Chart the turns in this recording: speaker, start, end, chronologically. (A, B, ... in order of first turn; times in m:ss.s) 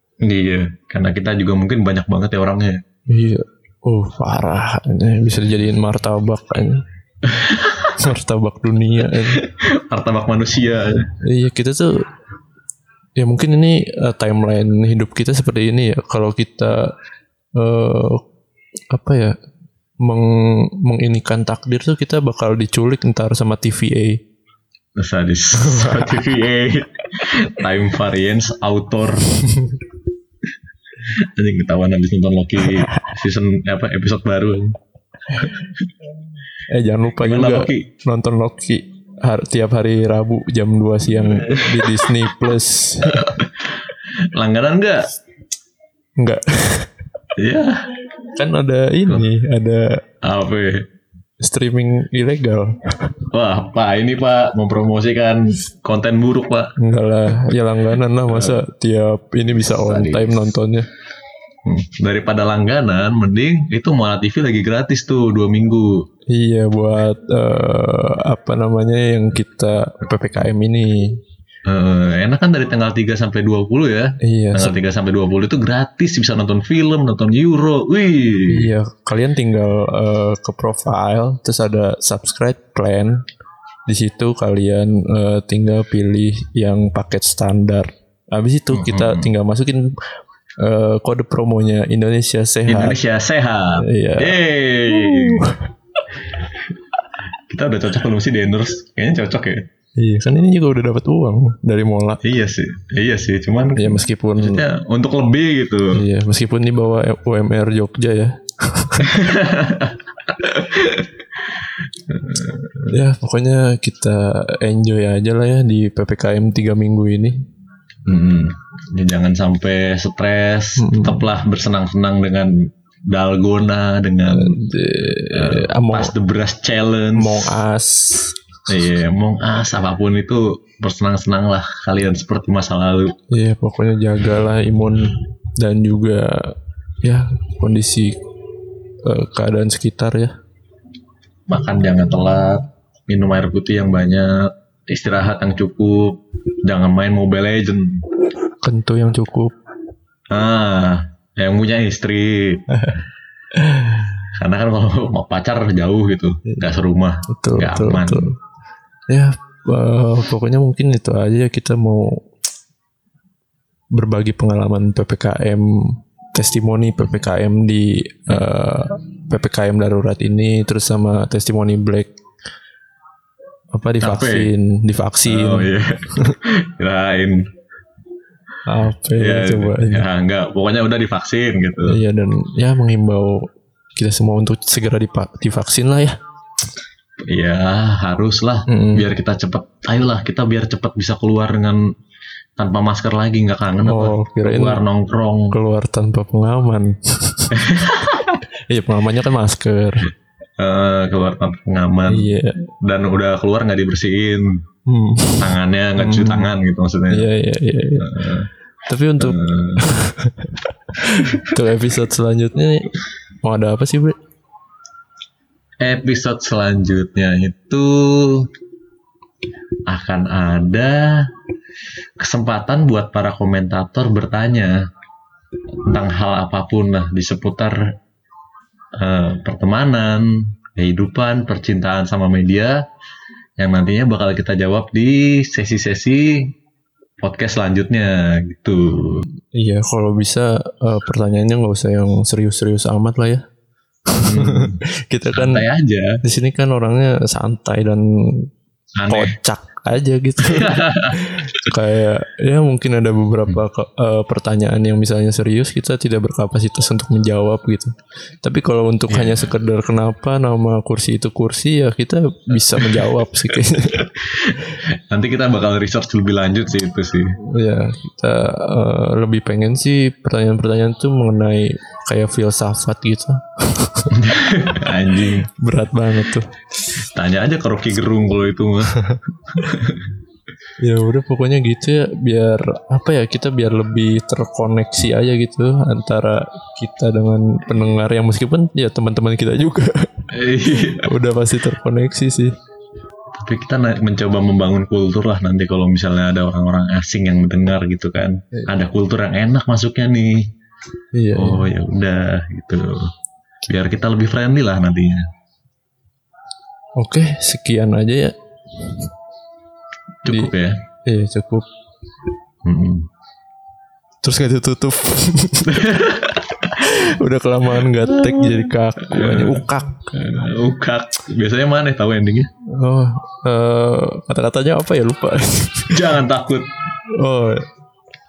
0:00.2-0:02.8 A
0:03.1-0:06.8 B
0:07.3-0:07.9 A
0:07.9-0:09.4 B
0:09.1-0:11.1 A
0:11.2-0:12.0 B
0:13.2-0:16.9 B
0:17.6-0:18.2 B
0:18.9-0:19.3 B
0:20.0-0:24.2 B
0:25.0-0:29.3 A
0:25.6-0:26.2 B
0:29.5-0:29.8 B
0:31.0-0:34.8 A
0:35.3-0:35.6 B
0:36.7-0:43.3 B
0:37.2-0:37.9 A
0:41.1-0:41.9 A
0:43.1-0:43.6 A
0:44.3-0:45.1 A
0:46.2-0:46.9 B
0:47.4-0:47.9 A
0:48.3-0:49.9 B
0:50.2-0:50.8 A
0:51.4-0:53.2 B
0:53.3-0:56.7 A
0:56.8-1:00.9 B
0:58.3-0:58.6 A
0:59.6-1:00.4 A
1:01.6-1:06.0 A
1:06.3-1:11.2 B
1:11.6-1:18.7 A
1:14.2-1:14.8 B
1:18.5-1:23.2 B
1:23.9-1:29.9 B
1:28.7-1:29.3 A
1:30.6-1:33.0 B
1:32.7-1:35.5 A
1:33.8-1:35.6 B
1:37.5-1:39.6 A
1:40.0-1:42.2 B
1:42.2-1:46.0 A
1:43.8-1:44.6 B
1:45.9-1:49.2 B
1:49.0-1:51.2 A
1:52.1-1:52.9 A
1:52.9-1:57.4 B
1:58.0-2:02.5 A
2:00.8-2:01.2 B
2:03.1-2:04.6 A
2:04.3-2:06.1 B
2:05.3-2:07.6 A
2:07.2-2:08.4 B
2:08.7-2:13.1 A
2:13.3-2:18.2 B
2:19.0-2:20.3 B
2:21.5-2:24.3 A
2:24.9-2:28.0 A
2:28.6-2:29.5 B
2:30.3-2:32.6 A
2:32.7-2:33.0 B
2:33.5-2:34.1 B
2:34.4-2:38.3 A
2:37.3-2:38.4 B
2:39.1-2:42.2 B
2:43.9-2:45.6 B
2:46.3-2:52.1 B
2:53.7-2:55.7 B
2:54.0-2:54.5 A
2:55.2-2:57.5 A
2:58.6-3:00.0 B
2:59.1-3:02.0 A
3:01.9-3:03.4 B
3:04.0-3:06.2 B
3:07.3-3:11.8 A
3:08.7-3:09.1 B
3:12.6-3:15.5 A
3:13.8-3:14.8 B
3:15.5-3:17.6 B
3:17.5-3:18.4 A
3:18.7-3:20.1 B
3:20.6-3:24.6 A
3:22.1-3:22.6 B
3:24.9-3:26.5 B
3:25.4-3:27.3 A
3:27.1-3:28.2 B
3:28.0-3:28.5 A
3:28.9-3:34.2 B
3:29.2-3:29.9 A
3:35.8-3:38.5 A
3:39.9-3:41.3 A
3:42.2-3:44.7 A
3:45.8-3:47.8 A
3:49.0-3:52.8 A
3:53.6-3:56.5 A
3:57.2-3:59.2 A
3:59.5-4:03.4 B
4:04.1-4:05.6 B
4:04.2-4:04.8 A
4:05.3-4:06.2 A
4:06.2-4:08.5 B
4:09.0-4:09.3 A
4:09.1-4:24.1 B
4:10.4-4:11.3 A
4:19.1-4:19.5 A
4:22.5-4:27.3 A
4:27.5-4:34.2 B
4:34.1-4:35.4 A
4:35.2-4:36.5 B
4:37.0-4:38.9 A
4:39.5-4:40.1 A
4:40.8-4:52.5 B
4:50.3-4:51.1 A
4:53.4-5:00.5 A
5:01.1-5:01.7 B
5:01.3-5:03.1 A
5:03.7-5:05.3 A
5:07.0-5:08.3 B
5:10.2-5:10.8 A
5:10.3-5:10.5 B
5:11.0-5:11.7 B
5:12.6-5:13.1 A
5:14.2-5:16.0 B
5:15.7-5:16.9 A
5:16.7-5:20.2 B
5:18.0-5:22.5 A
5:22.8-5:26.0 B
5:25.9-5:26.7 A
5:27.2-5:27.7 B